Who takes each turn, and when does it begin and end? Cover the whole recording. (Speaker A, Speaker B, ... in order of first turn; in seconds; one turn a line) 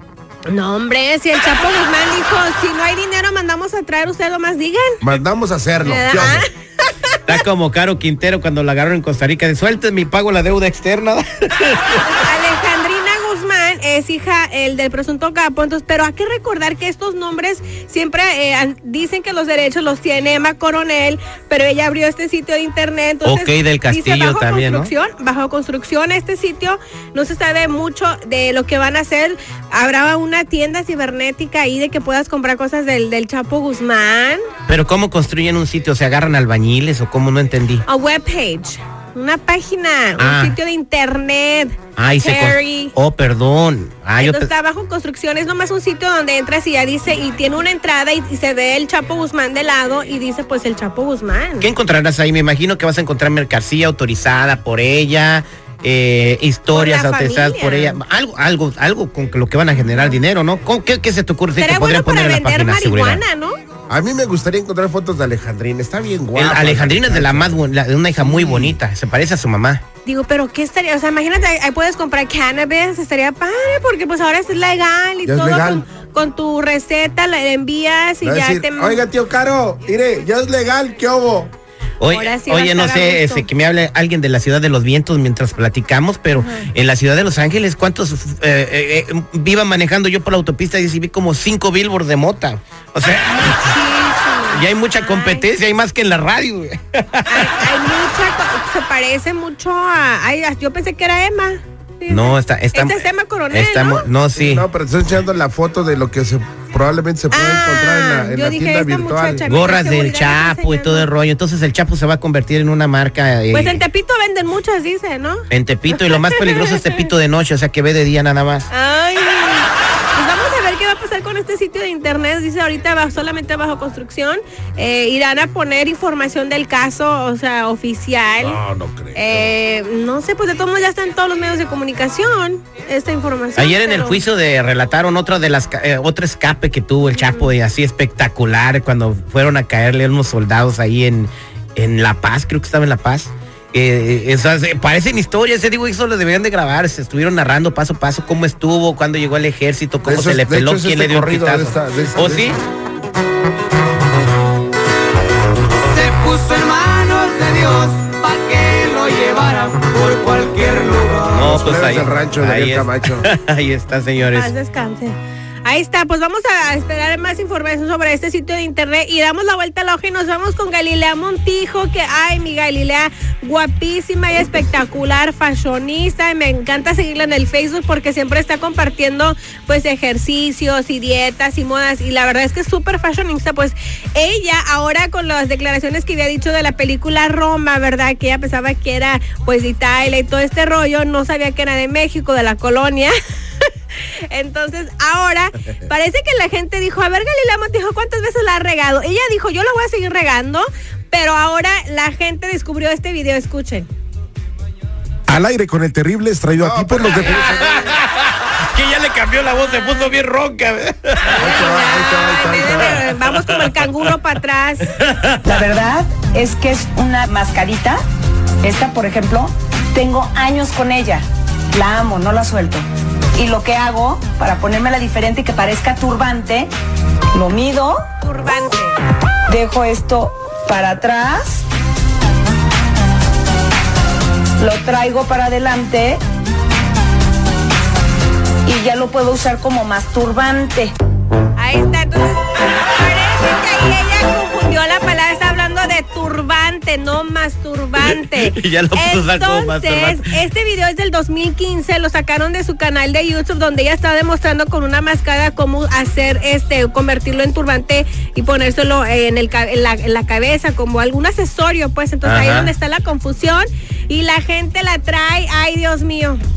Speaker A: 0.5-5.0
Speaker B: 5.0-6.4
Speaker A: 5.8-7.1
Speaker C: 7.3-12.1
Speaker A: 12.0-34.4
Speaker C: 23.2-24.9
Speaker C: 34.7-37.8
Speaker A: 37.9-42.9
Speaker C: 40.2-40.5
Speaker C: 42.0-44.5
Speaker A: 44.2-51.7
Speaker C: 51.6-63.2
Speaker A: 56.7-58.0
Speaker A: 59.8-60.1
Speaker A: 61.6-63.6
Speaker B: 63.9-67.6
Speaker C: 66.3-69.8
Speaker B: 68.1-68.8
Speaker A: 70.0-79.0
Speaker B: 75.2-75.8
Speaker B: 78.2-81.5
Speaker C: 82.0-93.7
Speaker A: 82.1-83.5
Speaker A: 86.3-86.7
Speaker A: 93.3-95.5
Speaker C: 94.5-97.6
Speaker A: 97.3-104.0
Speaker C: 102.1-104.7
Speaker B: 104.3-109.4
Speaker A: 107.3-111.1
Speaker C: 109.5-113.8
Speaker A: 113.5-116.8
Speaker C: 115.5-118.7
Speaker A: 118.7-128.6
Speaker B: 128.4-129.4
Speaker A: 129.1-134.2
Speaker C: 133.6-152.6
Speaker A: 137.1-137.5
Speaker B: 150.0-152.6
Speaker D: 156.0-161.1
Speaker C: 161.3-164.5
Speaker B: 161.3-163.3
Speaker A: 164.3-203.9
Speaker B: 205.3-208.0
Speaker C: 206.6-211.5
Speaker A: 211.3-214.9
Speaker B: 211.4-213.1
Speaker C: 212.8-214.1
Speaker C: 215.0-215.6
Speaker E: 215.4-218.0
Speaker E: 218.6-226.7
Speaker E: 227.3-228.0
Speaker A: 228.2-229.0
Speaker E: 229.5-231.6
Speaker E: 234.6-236.2
Speaker E: 238.6-240.9
Speaker A: 241.6-266.4
Speaker C: 248.0-250.3
Speaker C: 262.2-262.7